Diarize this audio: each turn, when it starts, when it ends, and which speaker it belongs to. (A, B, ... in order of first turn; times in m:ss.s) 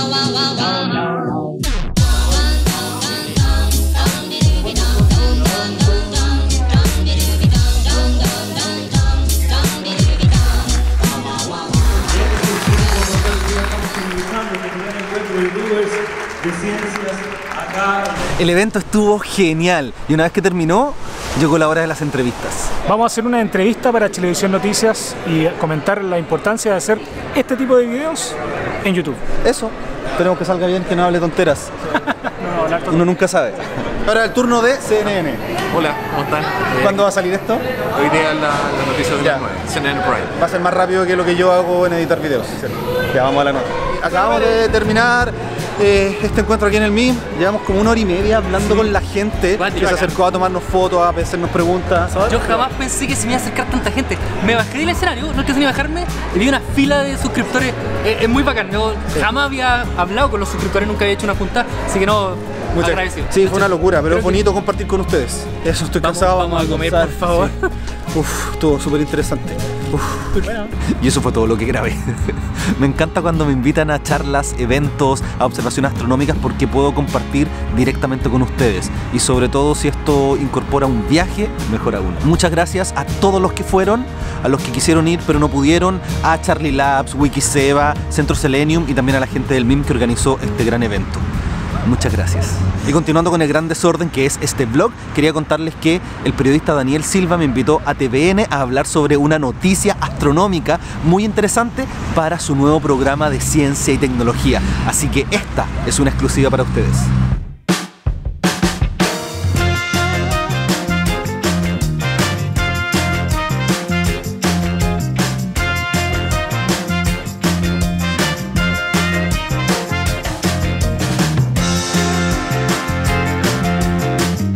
0:14.5-0:16.0 A
0:16.5-0:17.0 A
0:18.4-0:22.7 B
0:22.9-0:29.2 A
0:29.4-0:31.7 B
0:32.4-0:32.8 A
0:32.8-0:35.4 B
0:35.8-0:36.3 C
0:36.7-0:37.6 B
0:38.0-0:40.3 D
0:39.2-0:39.5 B
0:40.3-0:52.6 B
0:49.6-0:50.1 C
0:52.3-1:04.4 C
1:02.7-1:07.5 B
1:06.0-1:07.5 C
1:08.1-1:10.3 B
1:10.4-1:10.7 C
1:11.0-1:31.2 B
1:31.8-1:47.1 B